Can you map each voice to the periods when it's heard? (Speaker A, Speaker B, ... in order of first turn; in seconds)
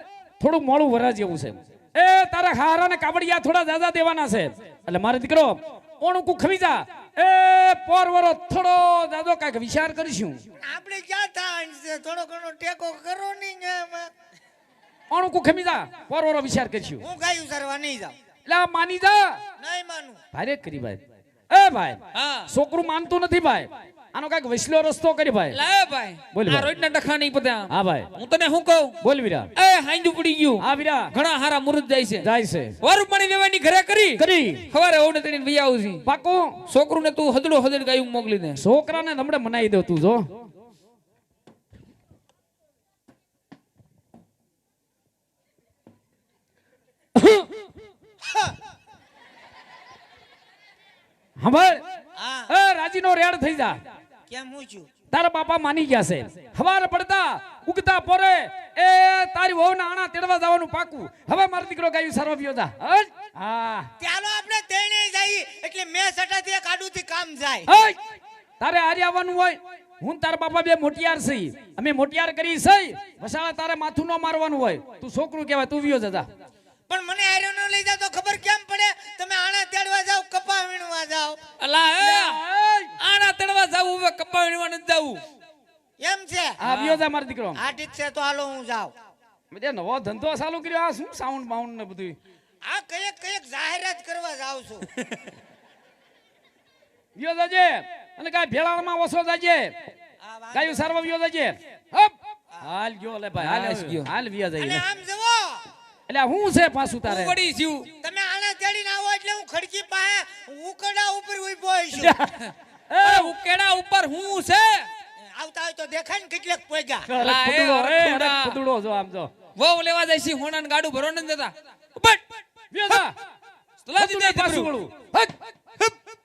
Speaker A: 0.4-10.4, 15.1-17.1, 18.4-19.4, 20.3-25.6, 26.3-26.7, 27.7-28.1, 29.0-29.5, 30.6-31.1, 32.2-32.7, 34.2-34.7, 36.0-36.6, 38.5-40.3, 47.2-47.5, 51.4-51.8, 52.5-53.8, 55.1-63.9, 67.7-68.0, 68.6-76.3, 82.0-82.9, 86.6-87.6, 89.5-92.2, 97.2-99.7, 100.5-104.8, 106.1-107.4, 111.9-112.4, 112.9-113.3, 117.1-119.3, 122.7-123.1, 124.0-125.3
Speaker B: 10.6-14.1, 17.0-18.1, 19.6-20.2, 48.2-48.5, 52.2-52.5, 54.3-54.9, 64.0-67.7, 76.9-81.4, 86.0-86.5, 87.5-88.9, 92.6-94.9, 100.2-100.9, 104.6-105.6, 108.0-112.1, 115.2-117.1
Speaker C: 22.1-22.5, 25.5-28.9, 29.6-32.3, 32.8-36.0, 36.7-38.6, 81.6-82.4, 83.0-85.2, 86.6-87.0, 103.4-104.1, 107.0-107.9, 112.4-114.9, 117.2-118.6, 119.5-122.2, 123.8-124.7